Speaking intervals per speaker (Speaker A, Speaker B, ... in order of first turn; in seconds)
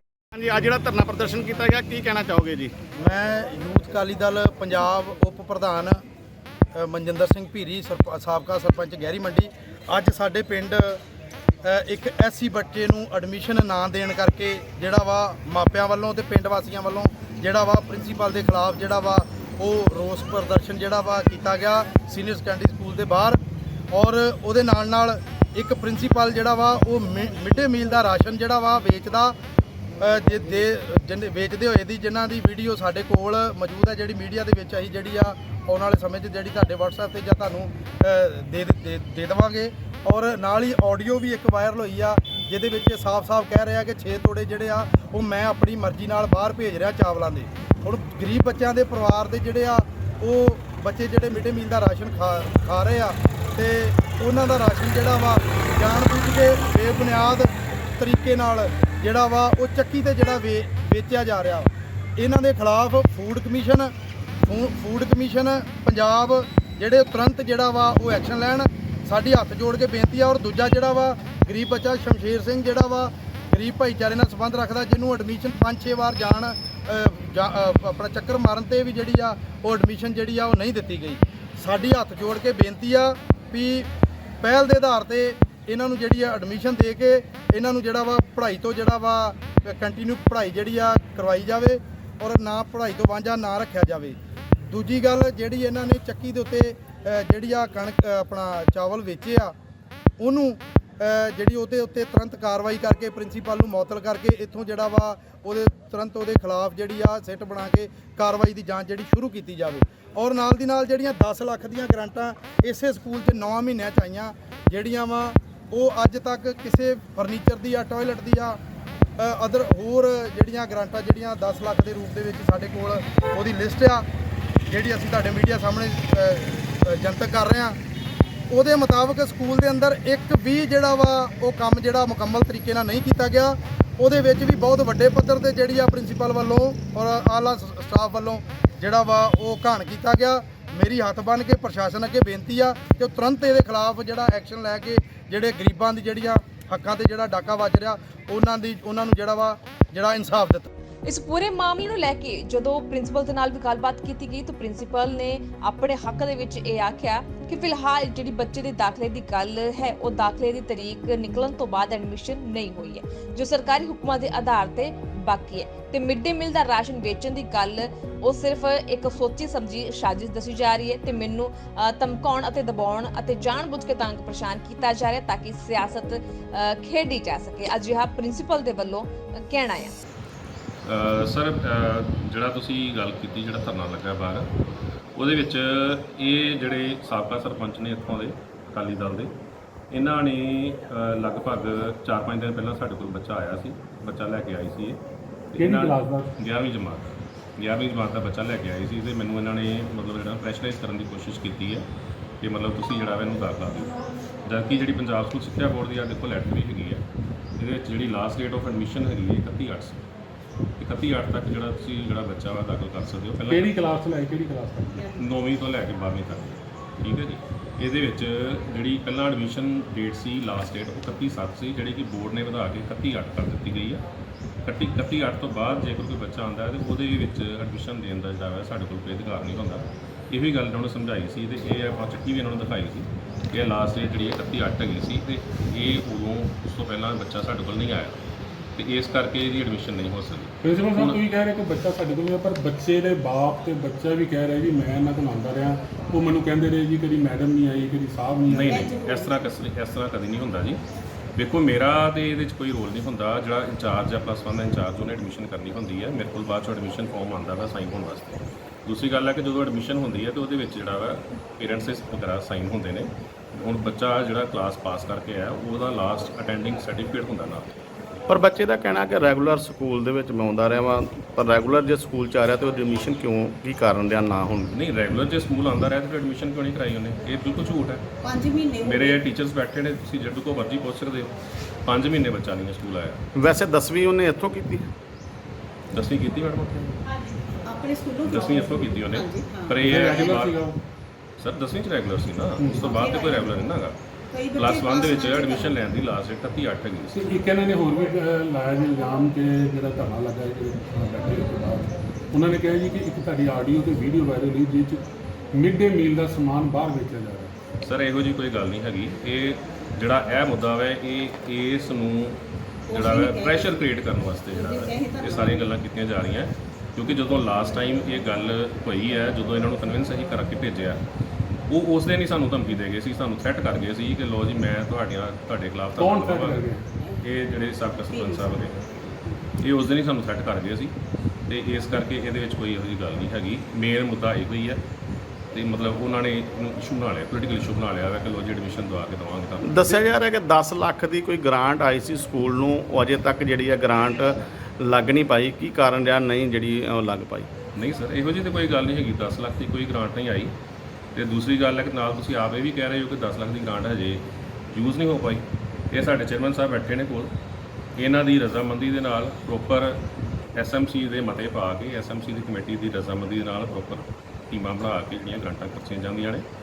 Speaker A: 0.3-2.7, 268.3-274.7, 283.4-284.8, 339.6-347.5
Speaker B: 3.0-6.0, 6.8-11.0, 11.6-23.4, 23.9-29.3, 30.0-63.9, 64.4-83.9, 84.4-94.2, 94.7-99.5, 100.2-118.6, 119.2-124.0, 124.7-127.8, 128.5-150.7
Speaker C: 151.1-179.9
Speaker D: 180.8-184.5, 185.2-189.3, 189.9-195.0, 195.5-201.8, 202.4-203.9, 204.4-207.0, 207.6-210.0, 210.8-213.8, 215.2-224.0, 224.7-238.2, 238.8-241.2, 248.5-250.8, 251.3-267.8, 274.7-278.1, 278.8-281.3, 281.9-283.2, 285.9-287.0, 288.2-290.6, 291.4-294.0, 294.5-297.4, 307.8-321.0, 321.7-326.6, 327.2-328.8, 329.6-330.9, 331.5-334.8, 335.5-340.0, 347.8-350.5, 351.1-357.3, 358.0-360.0, 360.6-366.4
Speaker E: 195.6-196.3, 213.5-215.1, 240.6-248.9, 289.8-290.8, 292.6-293.0, 297.1-307.5, 326.0-326.9
Speaker F: 248.7-249.3, 278.2-279.2, 287.2-290.3, 292.8-293.5, 294.3-295.8, 312.9-313.8, 314.5-315.6